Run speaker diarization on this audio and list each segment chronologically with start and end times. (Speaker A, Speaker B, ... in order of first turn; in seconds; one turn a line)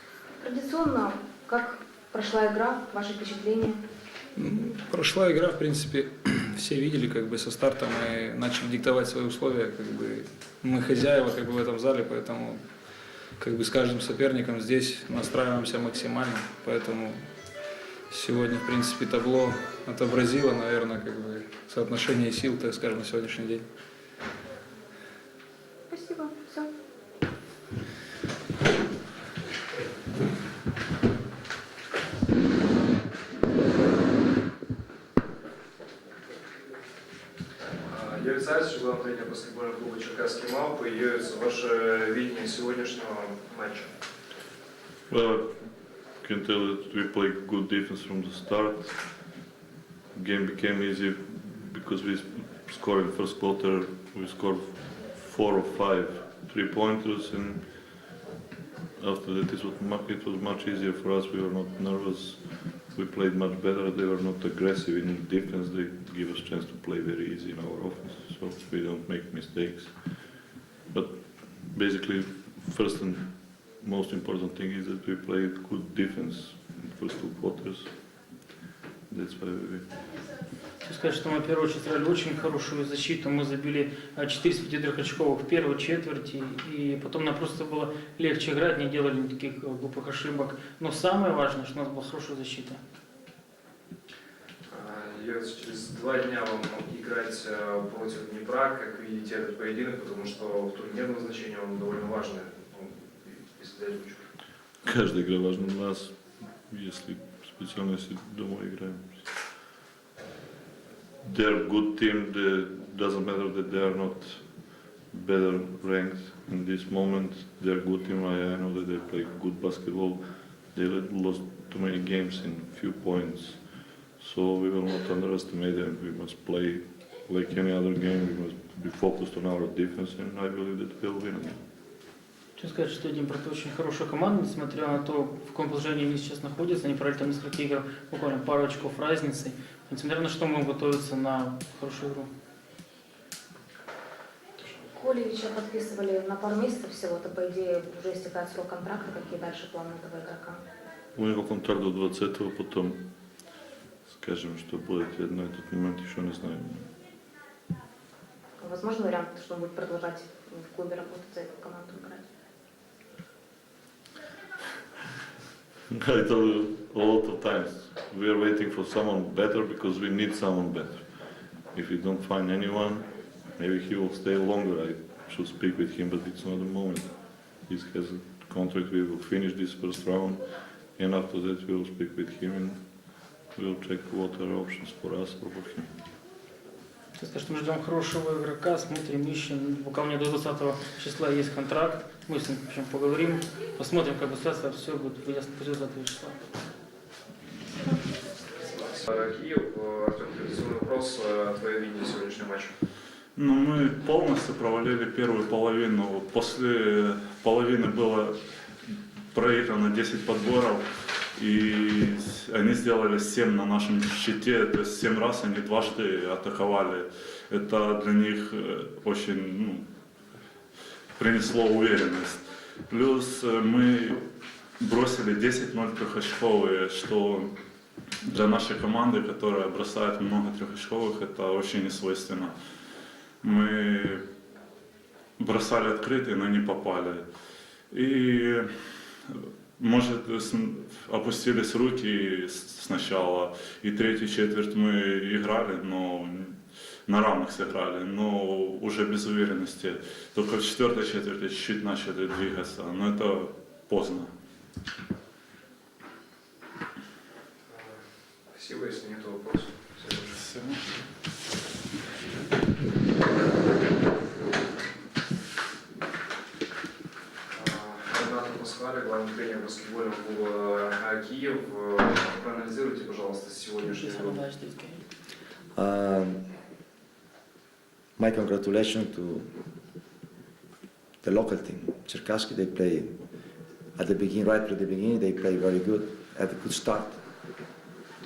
Speaker A: 0.4-3.8
Speaker B: 4.4-12.6
Speaker B: 13.4-17.2
Speaker B: 18.1-23.6
Speaker A: 25.9-26.7
Speaker C: 37.8-43.9
Speaker D: 45.1-45.6
Speaker D: 46.2-49.0
Speaker D: 50.1-57.7
Speaker D: 59.0-70.2
Speaker D: 70.9-77.9
Speaker D: 79.1-79.9
Speaker E: 80.8-92.8
Speaker C: 94.7-104.2
Speaker D: 104.8-109.2
Speaker D: 111.2-114.4
Speaker D: 115.1-131.6
Speaker E: 132.5-142.3
Speaker A: 144.9-150.6
Speaker D: 151.1-153.0
Speaker D: 154.1-156.9
Speaker A: 158.6-162.2
Speaker D: 165.9-171.2
Speaker D: 171.7-177.1
Speaker D: 177.6-180.4
Speaker D: 180.9-182.8
Speaker D: 183.5-185.9
Speaker E: 187.2-196.4
Speaker C: 198.6-202.7
Speaker F: 203.3-208.3
Speaker F: 209.3-210.8
Speaker F: 211.4-219.8
Speaker F: 221.2-224.2
Speaker F: 224.8-227.5
Speaker F: 228.3-232.5
Speaker F: 233.4-234.2
Speaker F: 235.4-237.2
Speaker F: 237.9-238.7
Speaker F: 239.2-254.3
Speaker C: 257.7-260.5
Speaker C: 267.5-274.4
Speaker E: 273.8-275.0
Speaker G: 275.7-276.4
Speaker G: 278.2-279.4
Speaker G: 281.2-283.1
Speaker G: 283.9-287.2